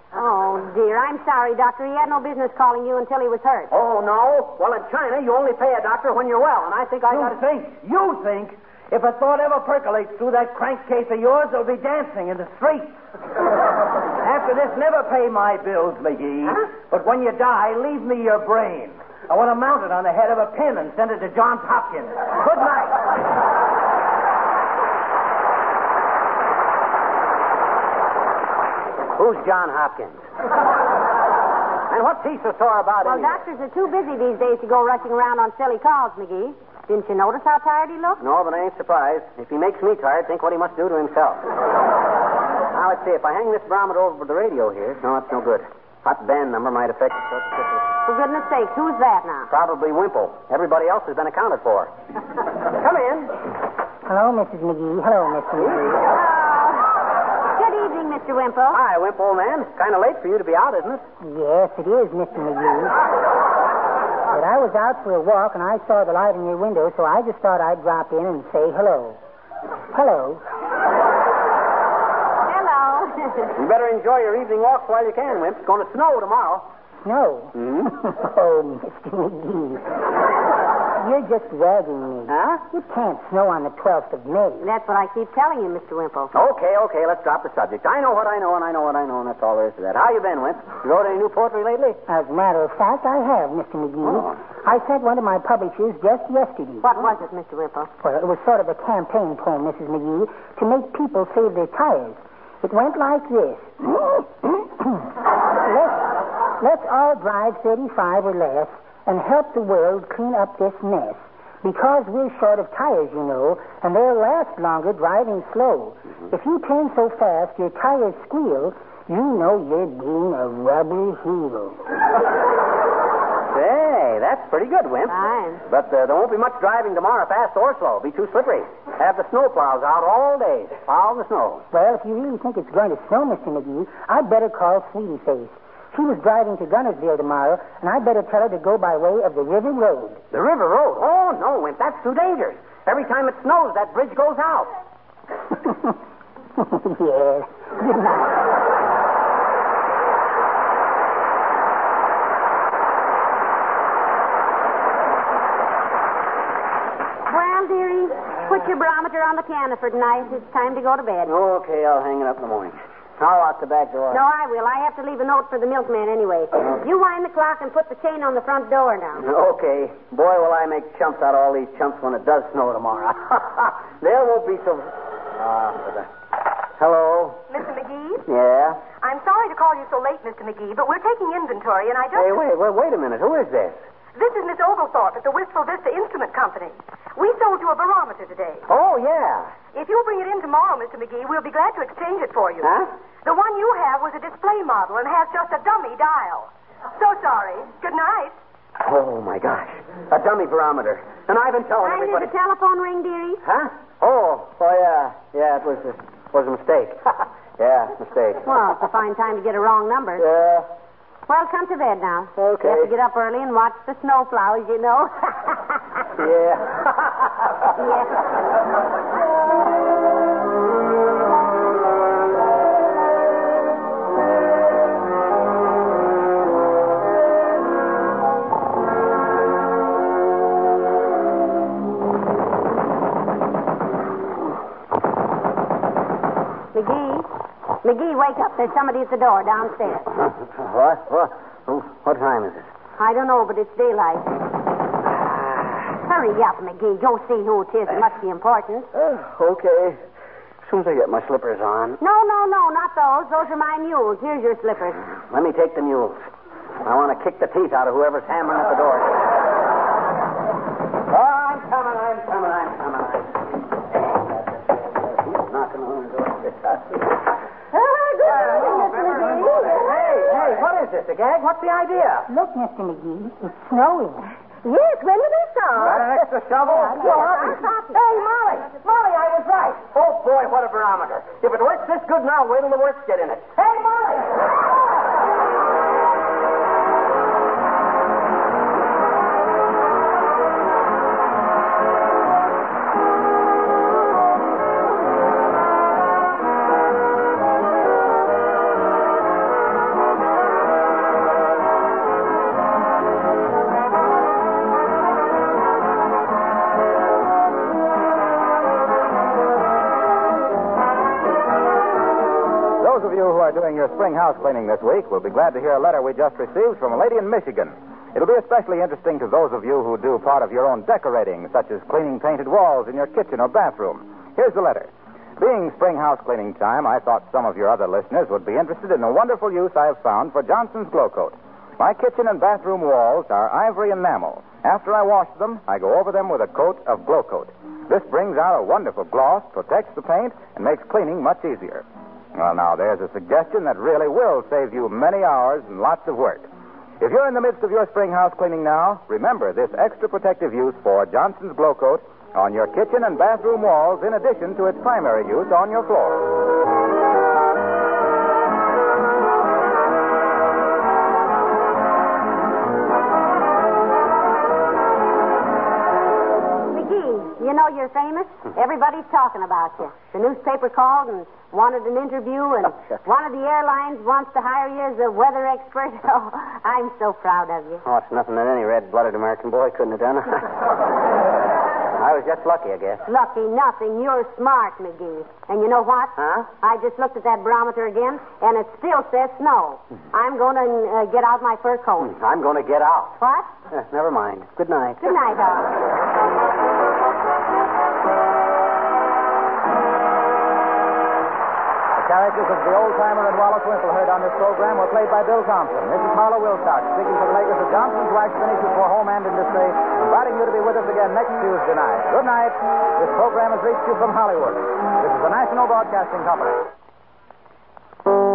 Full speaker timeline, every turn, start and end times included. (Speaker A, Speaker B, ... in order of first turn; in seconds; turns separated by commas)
Speaker A: 0.1-3.7, Speaker B: 3.7-7.4, Speaker C: 7.1-13.0, Speaker C: 14.2-23.0, Speaker B: 29.1-30.2, Speaker B: 31.9-33.4, Speaker A: 33.0-38.2, Speaker B: 38.2-41.4, Speaker B: 42.7-47.7, Speaker A: 48.1-49.5, Speaker B: 49.5-51.9, Speaker B: 52.7-53.3, Speaker D: 54.1-56.0, Speaker A: 56.4-56.7, Speaker A: 57.5-58.8, Speaker B: 58.7-61.0, Speaker D: 61.2-63.0, Speaker D: 64.3-69.2, Speaker D: 69.9-70.4, Speaker A: 72.5-73.5, Speaker B: 73.6-76.7, Speaker D: 77.0-79.8, Speaker B: 77.5-77.9, Speaker D: 81.0-84.6, Speaker B: 82.3-82.6, Speaker A: 84.6-86.3, Speaker B: 86.3-92.0, Speaker D: 92.1-96.9, Speaker B: 94.1-94.3, Speaker A: 96.8-97.9, Speaker D: 98.0-105.0, Speaker D: 105.7-121.8, Speaker B: 123.5-131.7, Speaker A: 125.1-125.6, Speaker D: 131.7-140.2, Speaker B: 140.3-144.7, Speaker D: 145.7-145.9, Speaker D: 146.6-148.4, Speaker A: 157.3-161.3, Speaker B: 161.3-164.2, Speaker A: 164.1-169.2, Speaker B: 169.2-176.1, Speaker B: 176.8-177.4, Speaker E: 177.5-178.2, Speaker B: 178.3-178.8, Speaker E: 179.0-182.4, Speaker B: 182.1-183.8, Speaker E: 184.2-188.7, Speaker B: 188.7-189.5, Speaker E: 189.7-192.7, Speaker B: 192.6-192.9, Speaker E: 193.2-198.3, Speaker B: 198.8-202.3, Speaker A: 201.8-203.4, Speaker B: 203.4-208.5, Speaker A: 208.4-210.3, Speaker B: 210.2-210.7, Speaker A: 211.3-215.8, Speaker B: 212.4-212.9, Speaker B: 216.2-217.3, Speaker A: 217.8-218.1, Speaker A: 236.7-237.3, Speaker A: 237.8-240.1, Speaker B: 240.2-242.7, Speaker A: 243.0-244.3, Speaker A: 246.0-248.9, Speaker B: 248.9-250.0, Speaker B: 250.6-252.0, Speaker A: 252.0-255.0, Speaker B: 255.3-256.2, Speaker B: 256.8-259.1, Speaker B: 261.1-267.0, Speaker F: 267.7-270.1, Speaker B: 268.2-272.3, Speaker C: 269.9-270.6, Speaker D: 272.3-274.3, Speaker F: 274.6-276.2, Speaker B: 275.8-284.3, Speaker G: 275.8-277.0, Speaker A: 277.1-277.5, Speaker C: 278.9-279.5, Speaker G: 312.8-346.5, Speaker G: 347.0-356.3, Speaker A: 366.7-377.8, Speaker B: 377.9-380.5, Speaker B: 382.0-383.0, Speaker A: 383.1-392.1, Speaker B: 386.2-386.5, Speaker B: 392.0-393.2, Speaker A: 393.2-393.5, Speaker B: 393.7-395.1, Speaker A: 395.0-395.7, Speaker G: 402.0-416.6